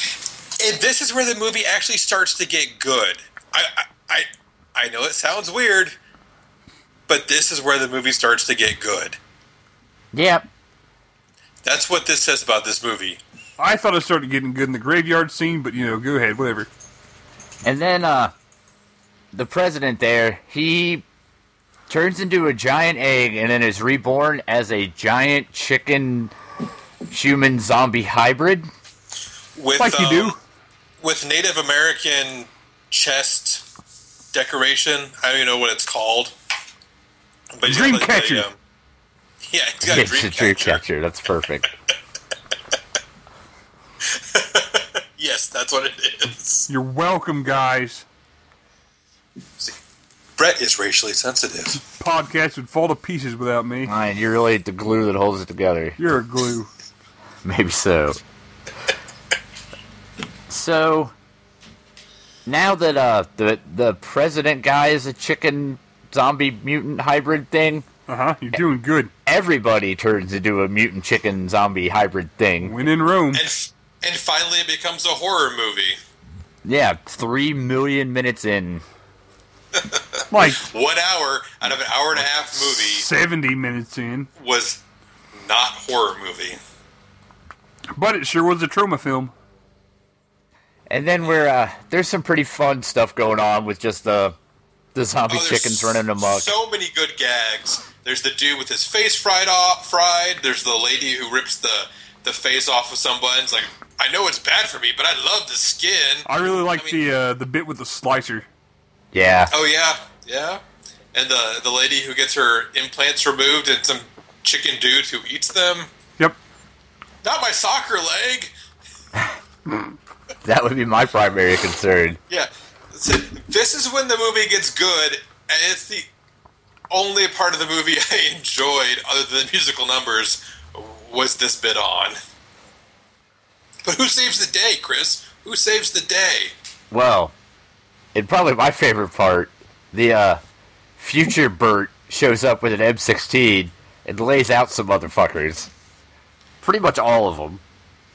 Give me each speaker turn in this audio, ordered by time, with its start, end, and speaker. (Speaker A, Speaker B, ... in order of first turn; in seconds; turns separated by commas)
Speaker A: 0.6-5.9, Speaker A: 7.1-9.2, Speaker B: 10.1-10.4, Speaker A: 11.6-13.2, Speaker C: 13.6-16.7, Speaker B: 17.6-18.3, Speaker B: 19.3-21.0, Speaker B: 21.9-26.3, Speaker B: 27.1-28.7, Speaker A: 29.6-30.4, Speaker C: 29.8-30.4, Speaker A: 31.0-33.6, Speaker A: 34.3-36.3, Speaker A: 37.6-38.6, Speaker C: 37.6-38.5, Speaker A: 39.4-40.8, Speaker B: 39.8-41.7, Speaker A: 44.0-46.7, Speaker C: 46.7-48.0, Speaker A: 50.4-51.8, Speaker C: 51.8-53.9, Speaker B: 53.9-56.0, Speaker C: 56.0-56.7, Speaker B: 57.4-58.2, Speaker B: 60.5-61.1, Speaker B: 62.5-67.9, Speaker C: 68.1-69.1, Speaker B: 69.2-72.7, Speaker C: 72.6-73.4, Speaker A: 73.3-76.0, Speaker B: 76.6-78.8, Speaker A: 79.7-83.1, Speaker C: 80.3-80.6, Speaker C: 82.5-84.3, Speaker A: 84.4-84.8, Speaker A: 85.3-86.6, Speaker C: 87.9-89.3, Speaker B: 90.9-94.4, Speaker B: 94.9-96.5, Speaker A: 95.3-107.0, Speaker C: 106.2-108.5, Speaker B: 109.1-109.5, Speaker A: 109.5-110.6, Speaker A: 111.1-115.9, Speaker A: 117.2-118.5, Speaker B: 120.4-122.2, Speaker A: 122.3-126.1, Speaker A: 126.9-132.2, Speaker A: 133.8-136.5, Speaker B: 136.9-137.3, Speaker B: 138.1-140.4, Speaker B: 141.0-145.7, Speaker B: 146.6-147.6